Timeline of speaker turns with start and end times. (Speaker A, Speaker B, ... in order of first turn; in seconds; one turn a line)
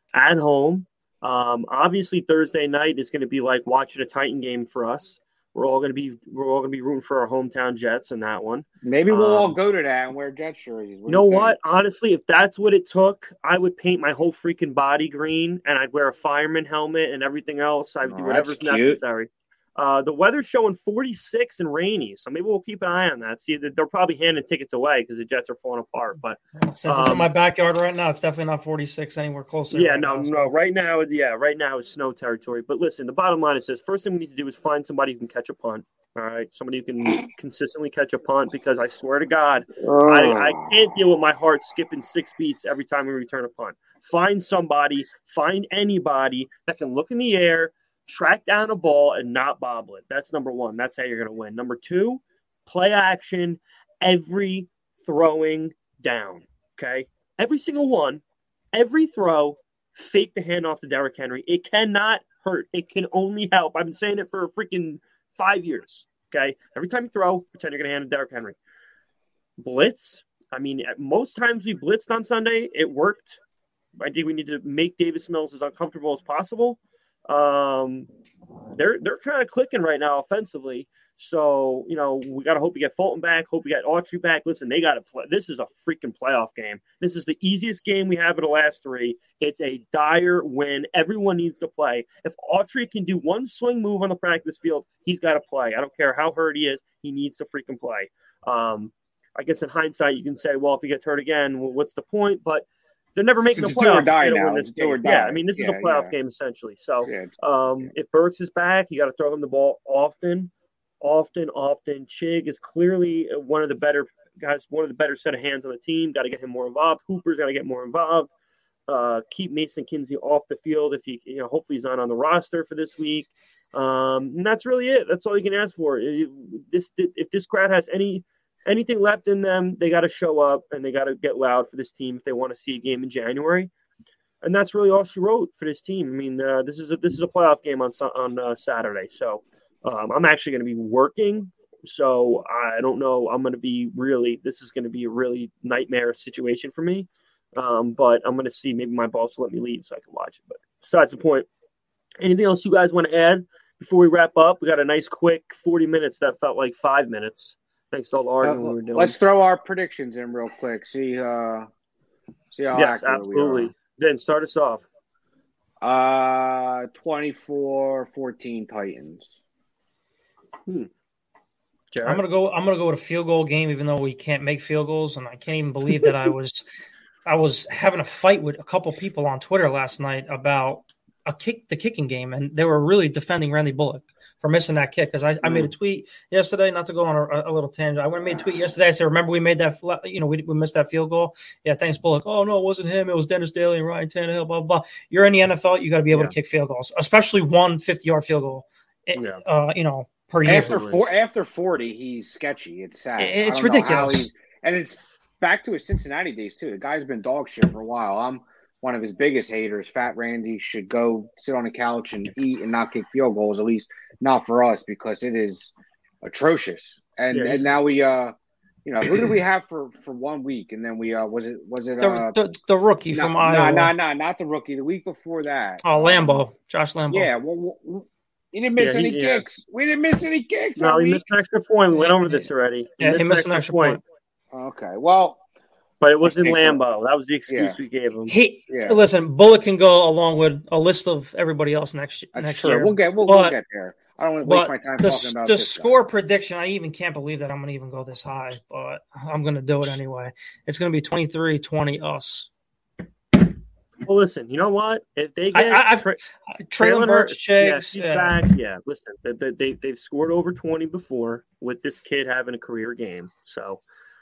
Speaker A: 0.1-9.5
Speaker B: 8.8-11.6
Speaker A: 11.1-27.3
Speaker B: 18.0-19.0
Speaker C: 26.6-30.5
Speaker A: 29.7-58.2
Speaker B: 39.8-40.9
Speaker A: 58.7-68.6
Speaker A: 69.6-73.4
Speaker A: 74.0-78.1
Speaker A: 78.8-118.3
Speaker B: 103.5-106.1
Speaker B: 107.0-107.9
Speaker A: 118.9-133.7
Speaker A: 134.4-151.5
Speaker A: 152.2-159.2
Speaker B: 158.4-161.7
Speaker B: 162.5-163.7
Speaker A: 162.7-164.8
Speaker B: 165.8-169.3
Speaker A: 171.9-172.2
Speaker C: 172.0-176.6
Speaker C: 177.2-200.9
Speaker A: 199.1-199.4
Speaker B: 200.4-222.4
Speaker A: 200.5-201.1
Speaker C: 203.2-204.3
Speaker A: 217.3-217.7
Speaker C: 222.0-223.9
Speaker B: 223.1-226.4
Speaker C: 225.8-227.3
Speaker B: 227.1-231.2
Speaker A: 228.8-229.4
Speaker A: 230.8-234.0
Speaker C: 231.9-234.0
Speaker B: 234.5-235.4
Speaker A: 236.0-238.3
Speaker B: 236.2-236.8
Speaker B: 237.5-237.8
Speaker C: 238.3-243.6
Speaker B: 238.7-239.0
Speaker B: 242.3-246.0
Speaker C: 244.4-252.5
Speaker A: 254.0-256.2
Speaker C: 255.5-258.4
Speaker A: 256.8-263.8